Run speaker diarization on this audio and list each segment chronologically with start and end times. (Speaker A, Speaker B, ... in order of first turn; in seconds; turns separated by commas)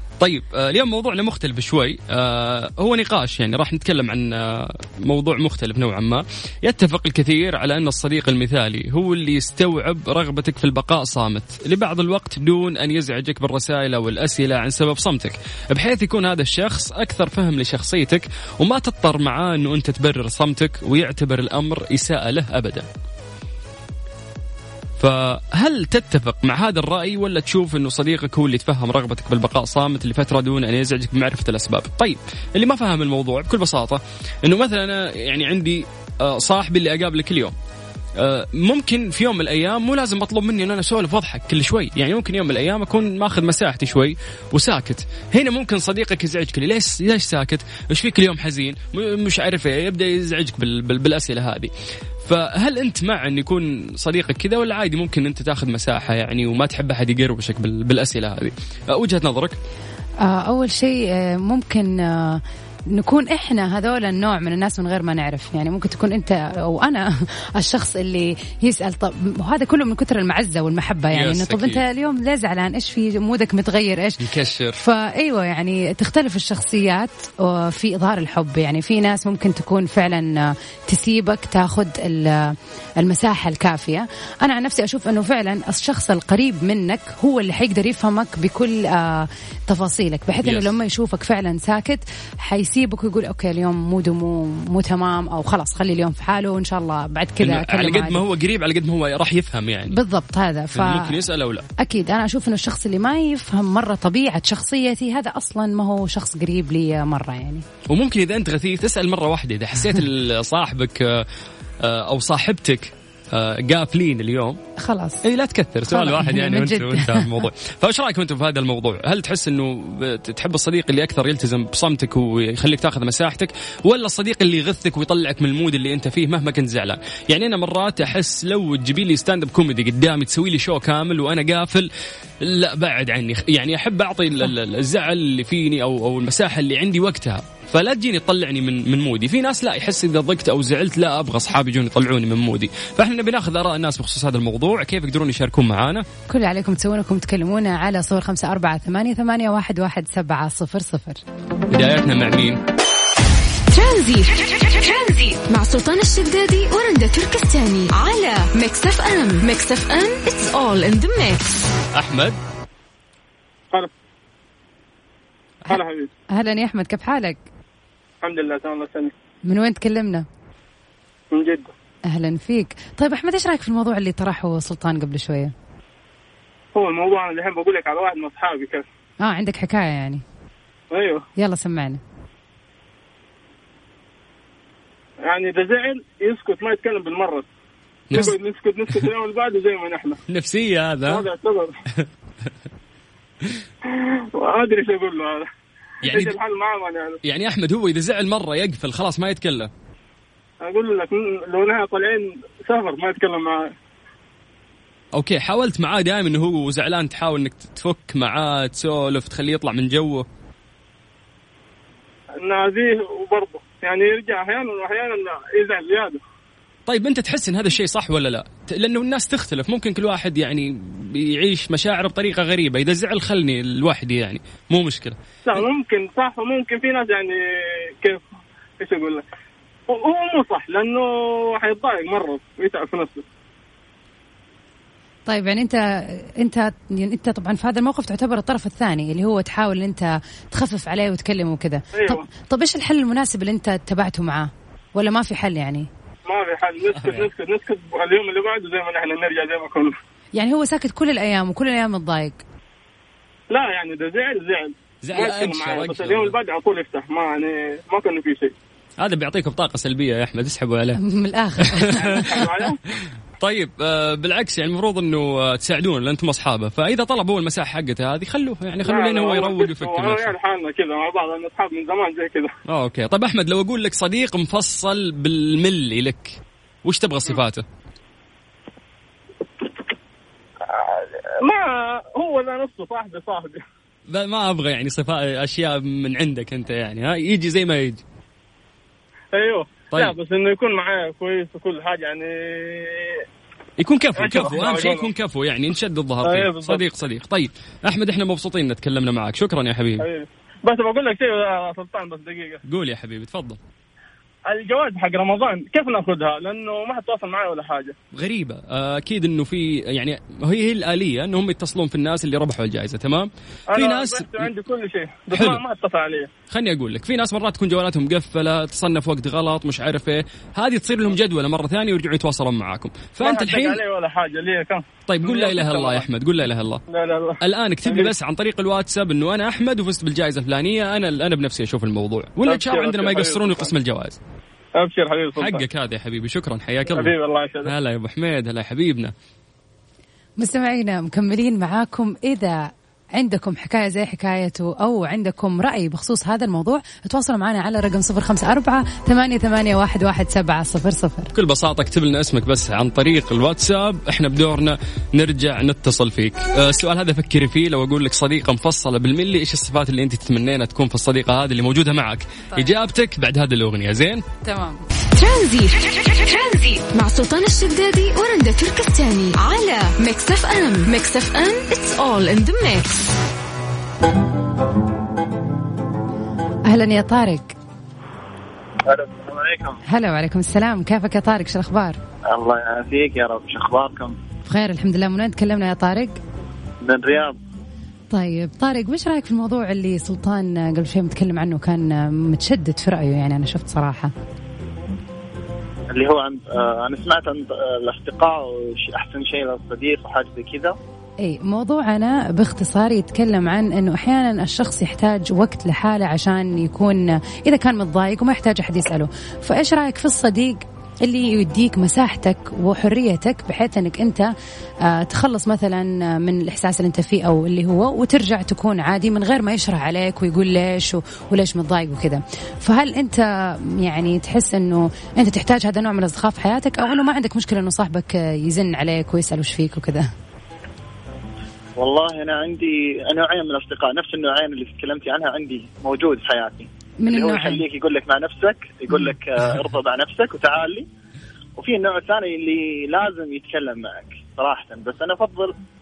Speaker A: 0.2-22.9, Speaker A: 25.0-37.5, Speaker A: 38.2-51.7, Speaker A: 52.2-59.6, Speaker B: 60.2-74.3, Speaker A: 71.1-71.8, Speaker A: 74.2-74.8, Speaker B: 74.8-98.2, Speaker A: 90.4-90.7, Speaker A: 97.4-100.0, Speaker B: 99.9-101.2, Speaker A: 100.7-101.7, Speaker B: 101.8-107.6, Speaker A: 107.9-111.3, Speaker A: 111.8-114.6, Speaker B: 114.8-115.2, Speaker A: 115.2-131.9, Speaker B: 115.9-117.4, Speaker A: 132.4-146.1, Speaker B: 146.3-151.2, Speaker A: 151.7-152.6, Speaker C: 153.7-161.6, Speaker A: 161.9-162.4, Speaker D: 165.7-166.1, Speaker B: 166.3-167.4, Speaker D: 168.2-169.1, Speaker B: 169.5-170.3, Speaker D: 171.3-171.7, Speaker B: 172.1-175.5, Speaker D: 176.8-178.8, Speaker B: 179.2-180.2, Speaker D: 180.9-181.2, Speaker B: 181.4-182.0, Speaker D: 185.2-187.5, Speaker D: 188.1-190.2, Speaker A: 190.3-191.3, Speaker D: 191.1-191.8, Speaker A: 192.0-192.5, Speaker D: 193.9-195.5, Speaker A: 196.0-196.4, Speaker D: 196.1-197.2, Speaker A: 197.2-199.7, Speaker D: 200.6-203.7, Speaker A: 205.1-210.3, Speaker D: 212.4-216.2, Speaker A: 216.9-225.6, Speaker D: 225.5-228.2, Speaker D: 228.8-229.2, Speaker D: 229.9-233.2, Speaker B: 235.3-245.9, Speaker D: 241.9-242.2, Speaker D: 246.3-250.0, Speaker A: 246.9-247.3, Speaker B: 250.4-252.4, Speaker D: 253.5-258.5, Speaker A: 255.0-256.4, Speaker A: 259.0-261.0, Speaker B: 261.0-262.4, Speaker A: 261.6-270.3, Speaker D: 261.9-262.8, Speaker D: 268.9-272.5, Speaker A: 272.7-277.6, Speaker D: 280.7-283.6, Speaker A: 284.1-288.0, Speaker D: 289.3-293.2, Speaker A: 293.8-300.1, Speaker D: 294.2-295.1, Speaker D: 296.2-296.8, Speaker D: 300.0-302.6, Speaker A: 302.7-303.6, Speaker D: 304.5-307.9, Speaker A: 308.1-314.5, Speaker D: 313.7-316.3, Speaker A: 315.3-315.6, Speaker A: 316.5-323.8, Speaker D: 323.2-326.1, Speaker A: 325.1-326.8, Speaker D: 326.9-328.1, Speaker A: 327.4-334.2, Speaker D: 332.5-333.6, Speaker D: 334.8-335.6, Speaker A: 335.3-339.1, Speaker D: 336.9-337.7, Speaker B: 340.4-351.3, Speaker A: 351.3-364.2, Speaker B: 364.4-364.8, Speaker C: 365.2-373.1, Speaker B: 376.7-377.5, Speaker E: 378.9-379.8, Speaker B: 379.9-382.0, Speaker E: 382.3-384.2, Speaker B: 384.5-386.2, Speaker E: 386.8-387.4, Speaker B: 388.1-394.1, Speaker E: 395.9-400.8, Speaker B: 401.2-414.3, Speaker B: 414.8-430.1, Speaker E: 431.8-440.9, Speaker B: 437.0-437.6, Speaker E: 441.6-445.5